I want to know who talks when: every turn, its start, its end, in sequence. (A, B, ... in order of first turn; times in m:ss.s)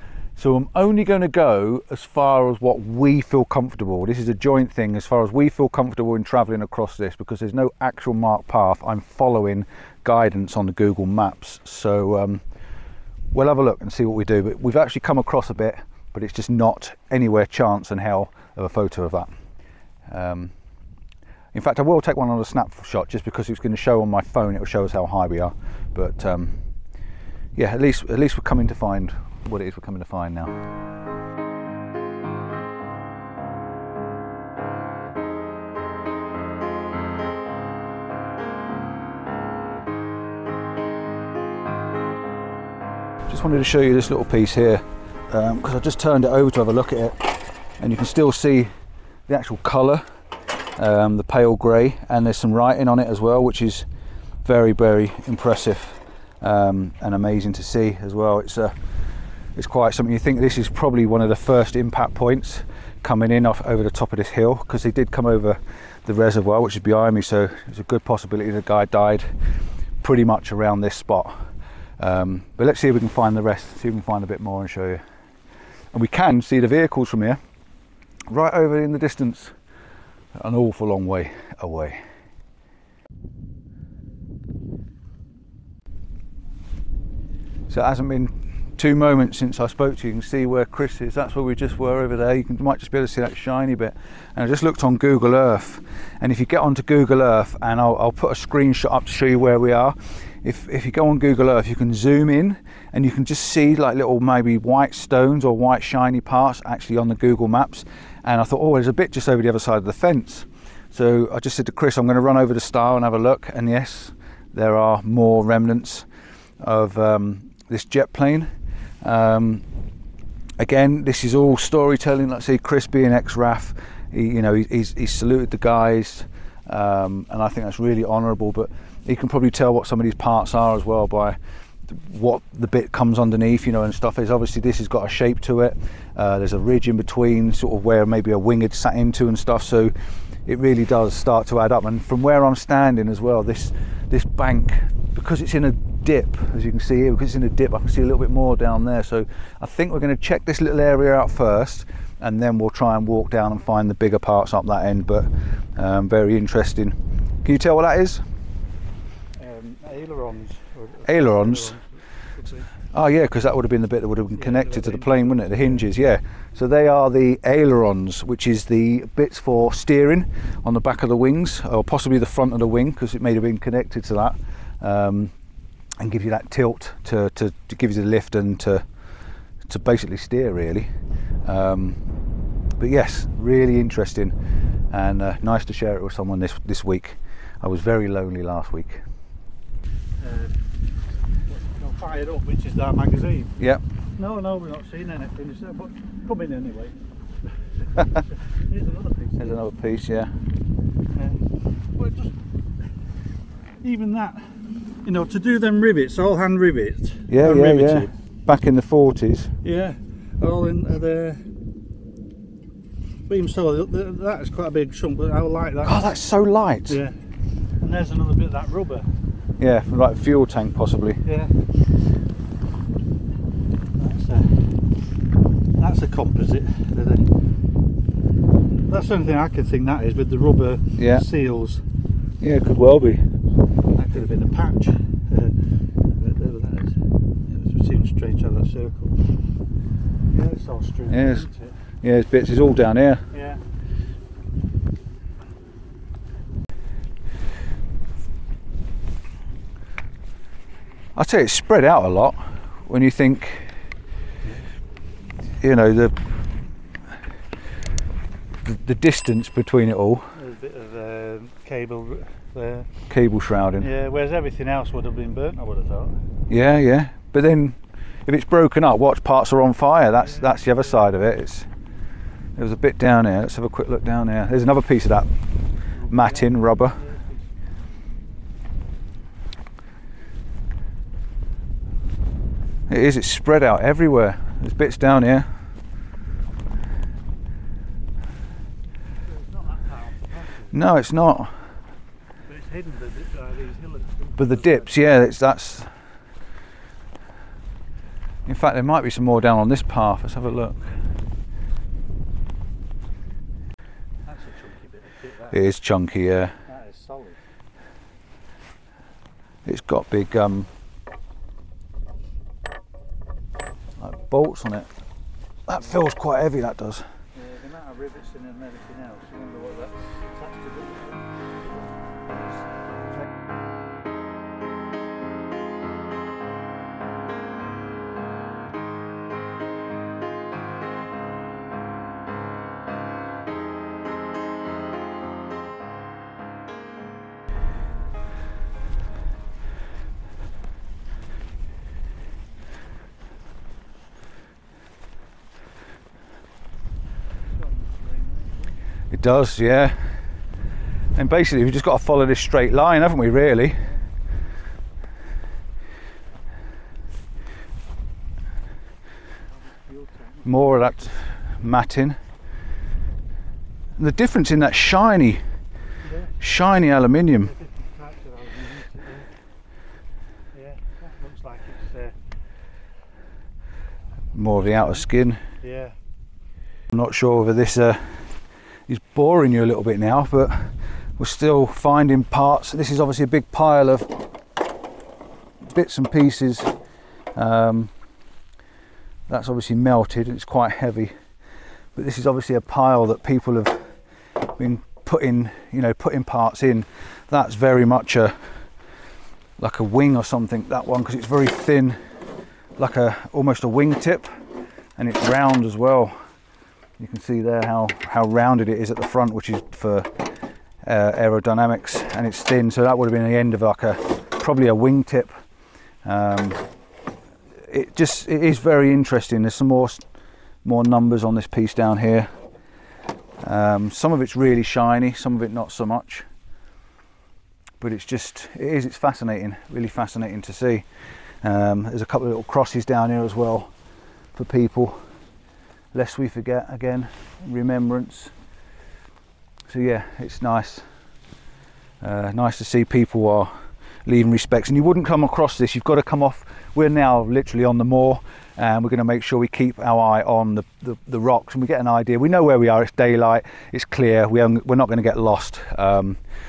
0:00.4-0:12.4 A
0:13.3-0:19.3 A
0:20.1-0:20.5 A
0:21.5-0:26.6 A
0:27.6-0:30.5 A
0:43.3-0:48.7 A
0:49.3-0:50.0 A
0:50.8-0:53.9 A
0:54.4-0:58.7 A
0:59.6-1:09.3 A
1:10.0-1:11.4 A
1:12.0-1:15.0 A
1:15.9-1:17.4 A
1:18.3-1:19.5 A
1:20.4-1:22.0 A
1:27.7-1:56.1 A
1:56.6-1:58.5 A
1:59.0-1:59.6 A
2:00.6-2:19.9 A
2:20.4-2:38.2 A
2:39.4-2:42.7 B
2:41.0-2:41.7 A
2:42.9-2:55.3 A
2:44.4-2:45.9 B
2:56.0-2:58.8 A
2:59.7-3:00.9 A
3:01.4-3:02.0 A
3:02.8-3:04.3 A
3:04.9-3:09.0 A
3:10.2-3:10.6 B
3:11.4-3:13.6 B
3:14.2-3:17.0 B
3:18.0-3:19.6 B
3:19.4-3:20.3 A
3:21.1-3:22.4 B
3:23.8-3:28.1 B
3:27.3-3:29.5 A
3:29.6-3:31.5 B
3:33.3-3:36.1 B
3:35.8-3:37.0 A
3:36.9-3:37.2 B
3:37.8-3:39.1 B
3:39.6-3:41.2 A
3:41.2-3:41.6 B
3:44.0-3:44.8 B
3:45.7-3:47.3 B
3:48.9-3:51.8 B
3:51.0-3:51.2 A
3:52.4-3:53.2 A
3:53.9-3:59.3 B
4:00.3-4:01.8 B
4:01.1-4:01.4 A
4:02.0-4:03.2 A
4:03.3-4:03.6 B
4:11.2-4:13.7 A
4:15.6-4:16.2 A
4:18.6-4:20.3 A
4:20.3-4:22.9 B
4:23.1-4:23.9 A
4:23.8-4:26.2 B
4:26.5-4:31.7 A
4:30.2-4:30.8 B
4:32.6-4:35.3 A
4:36.0-4:37.5 B
4:36.1-4:37.0 A
4:42.9-4:45.5 A
4:49.2-4:50.8 B
4:50.7-4:51.5 A
4:52.5-4:55.1 B
4:54.4-4:55.9 A
4:58.4-5:00.9 A
5:04.2-5:05.6 B
5:05.5-5:06.5 A
5:06.6-5:07.4 B
5:09.6-5:10.7 A
5:14.0-5:14.9 A
5:15.7-5:17.0 A
5:17.3-5:22.6 B
5:47.5-5:48.8 B
5:49.1-5:50.0 A
5:51.2-5:53.9 A
5:59.5-6:01.1 B
6:00.4-6:02.2 A
6:04.0-6:05.4 A
6:06.0-6:06.3 B
6:06.4-6:07.5 A
6:07.4-6:09.3 B
6:10.5-6:12.2 B
6:14.3-6:15.4 A
6:14.6-6:15.0 B
6:15.6-6:16.0 B
6:16.9-6:18.3 A
6:18.9-6:24.2 A
6:25.6-6:26.7 A
6:27.4-6:27.9 A
6:29.3-6:31.1 A
6:32.0-6:33.9 A
6:34.4-6:38.4 A
6:39.6-6:42.0 A
6:42.8-6:44.3 A
6:45.0-6:46.2 A
6:47.0-6:50.3 A
6:50.8-6:55.3 A
6:56.0-6:56.6 A
6:57.7-7:00.0 A
7:00.6-7:02.3 A
7:03.4-7:06.2 A
7:07.8-7:10.9 A
7:11.4-7:13.7 A
7:14.4-7:15.0 A
7:15.9-7:18.3 A
7:19.7-7:20.8 A
7:22.0-7:23.5 A
7:24.0-7:36.2 A